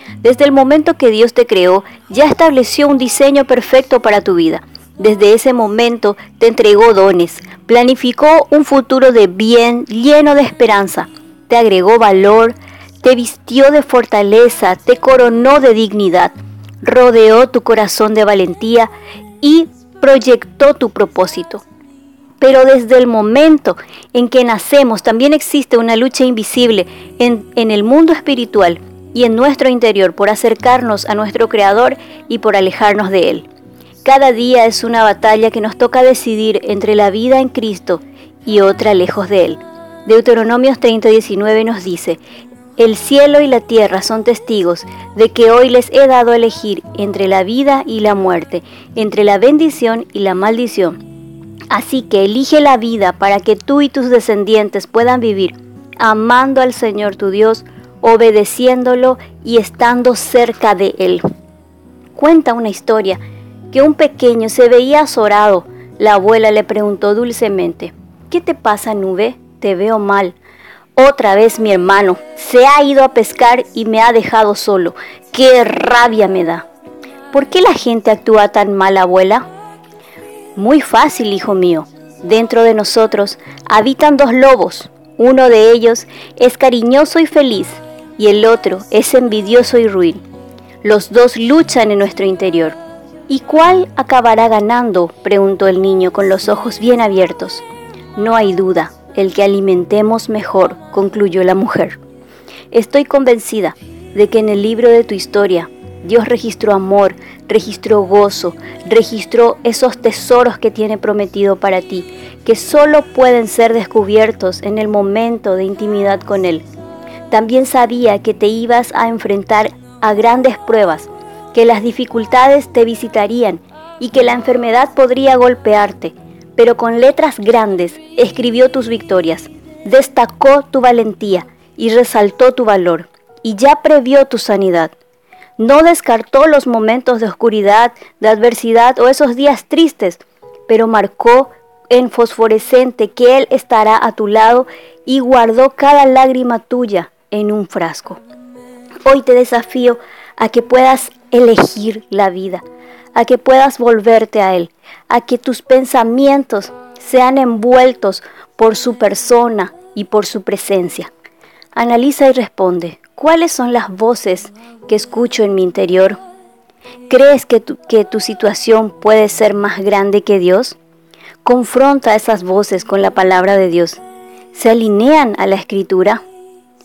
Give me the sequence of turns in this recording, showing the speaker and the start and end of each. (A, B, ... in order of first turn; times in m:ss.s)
0:00.2-0:21.6 A
0:22.4-0:33.5 A
0:34.0-0:42.2 A
0:42.8-0:51.0 A
0:51.7-1:01.2 A
1:02.1-1:03.2 A
1:03.7-1:10.4 A
1:11.0-1:16.6 A
1:17.3-1:19.4 A
1:20.6-1:30.2 A
1:30.8-1:32.8 A
1:33.3-1:37.6 A
1:38.2-1:42.0 A
1:42.7-1:56.6 A
1:57.3-2:14.9 A
2:15.6-2:28.2 A
2:29.0-2:32.6 A
2:33.1-2:41.1 A
2:41.7-2:46.2 A
2:47.1-2:50.8 A
2:51.4-2:54.0 A
2:54.5-2:56.2 A